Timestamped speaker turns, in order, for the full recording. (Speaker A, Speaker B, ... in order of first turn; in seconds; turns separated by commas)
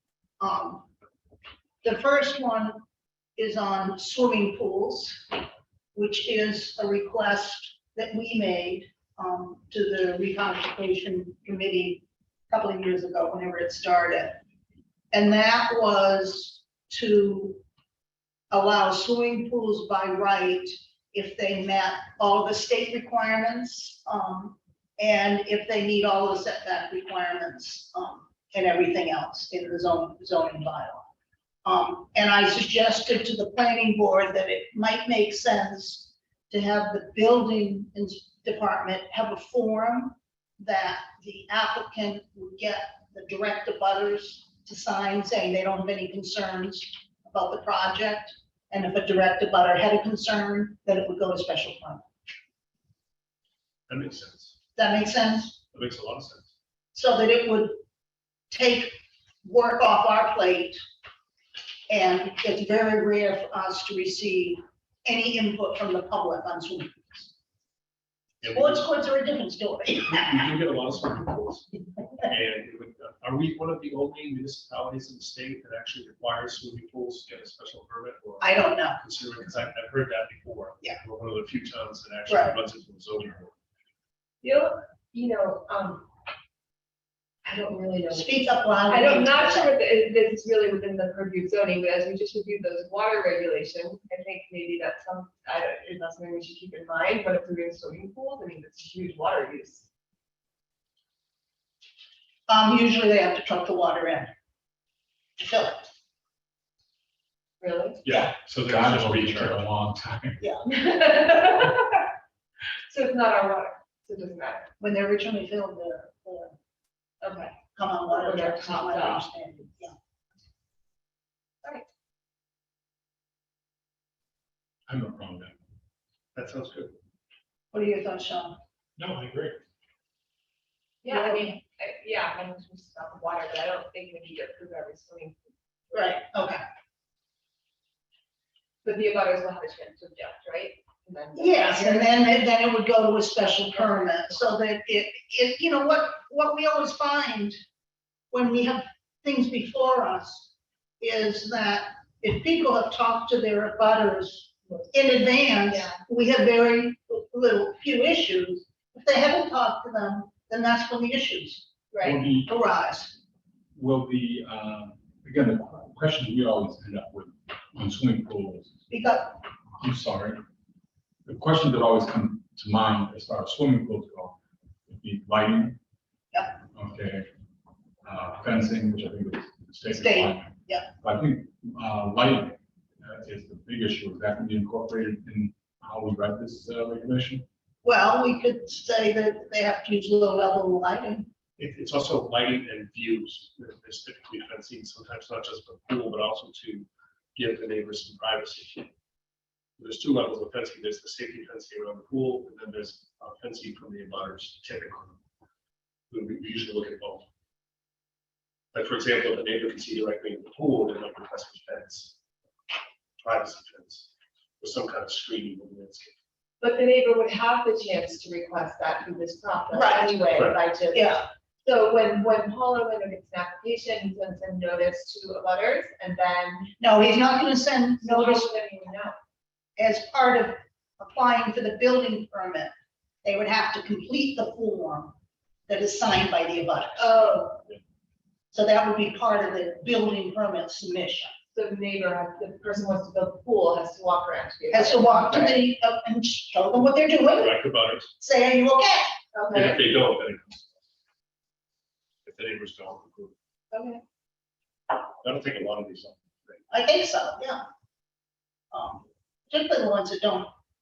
Speaker A: 0.4-0.9, Speaker A: 1.8-2.8, Speaker A: 3.4-5.4, Speaker A: 5.9-14.4, Speaker A: 15.1-17.6, Speaker A: 18.5-31.1, Speaker A: 31.6-52.0, Speaker B: 53.9-54.5, Speaker A: 54.8-55.6, Speaker B: 55.7-56.5, Speaker A: 56.9-57.8, Speaker A: 58.5-58.9, Speaker A: 59.4-60.8, Speaker A: 61.9-67.3, Speaker B: 68.4-68.8, Speaker A: 68.5-70.5, Speaker B: 70.0-83.5, Speaker A: 78.4-79.0, Speaker A: 82.3-82.6, Speaker C: 84.4-86.1, Speaker C: 87.4-99.9, Speaker A: 88.1-89.8, Speaker A: 102.5-104.3, Speaker A: 105.4-105.9, Speaker C: 107.6-108.0, Speaker B: 108.0-109.6, Speaker D: 108.5-110.4, Speaker C: 110.7-112.1, Speaker C: 112.9-114.7, Speaker A: 114.8-116.6, Speaker C: 117.2-117.5, Speaker A: 117.7-119.9, Speaker C: 118.1-119.3, Speaker D: 124.9-125.6, Speaker B: 126.3-127.0, Speaker A: 127.7-128.6, Speaker D: 129.0-129.6, Speaker C: 131.0-135.4, Speaker A: 131.1-131.6, Speaker A: 135.9-136.6, Speaker C: 138.8-142.3, Speaker A: 141.3-147.6, Speaker C: 143.7-144.4, Speaker A: 148.3-161.7, Speaker C: 154.7-156.0, Speaker C: 161.9-162.2, Speaker D: 162.0-162.5, Speaker A: 162.5-163.1, Speaker D: 163.7-168.7, Speaker A: 168.9-169.4, Speaker D: 169.8-170.4, Speaker D: 171.2-175.8, Speaker D: 176.7-177.3, Speaker D: 178.0-187.5, Speaker A: 179.9-180.9, Speaker A: 187.8-191.3, Speaker B: 191.6-198.9, Speaker B: 199.8-205.2, Speaker B: 206.1-207.3, Speaker B: 208.7-212.1, Speaker B: 213.2-214.1, Speaker B: 214.6-216.1, Speaker C: 216.6-226.7, Speaker A: 219.7-220.2, Speaker B: 220.3-220.6, Speaker A: 220.9-221.3, Speaker A: 226.8-228.5, Speaker C: 228.0-229.2, Speaker A: 229.8-232.7, Speaker A: 233.2-235.1, Speaker A: 235.7-237.2, Speaker C: 237.0-237.6, Speaker A: 238.5-241.3, Speaker C: 241.5-245.7, Speaker A: 244.7-247.6, Speaker B: 247.3-248.1, Speaker A: 248.2-249.2, Speaker C: 249.3-249.8, Speaker B: 249.5-250.7, Speaker B: 252.2-253.3, Speaker C: 253.7-254.0, Speaker B: 255.2-256.6, Speaker A: 256.7-257.6, Speaker A: 258.7-260.5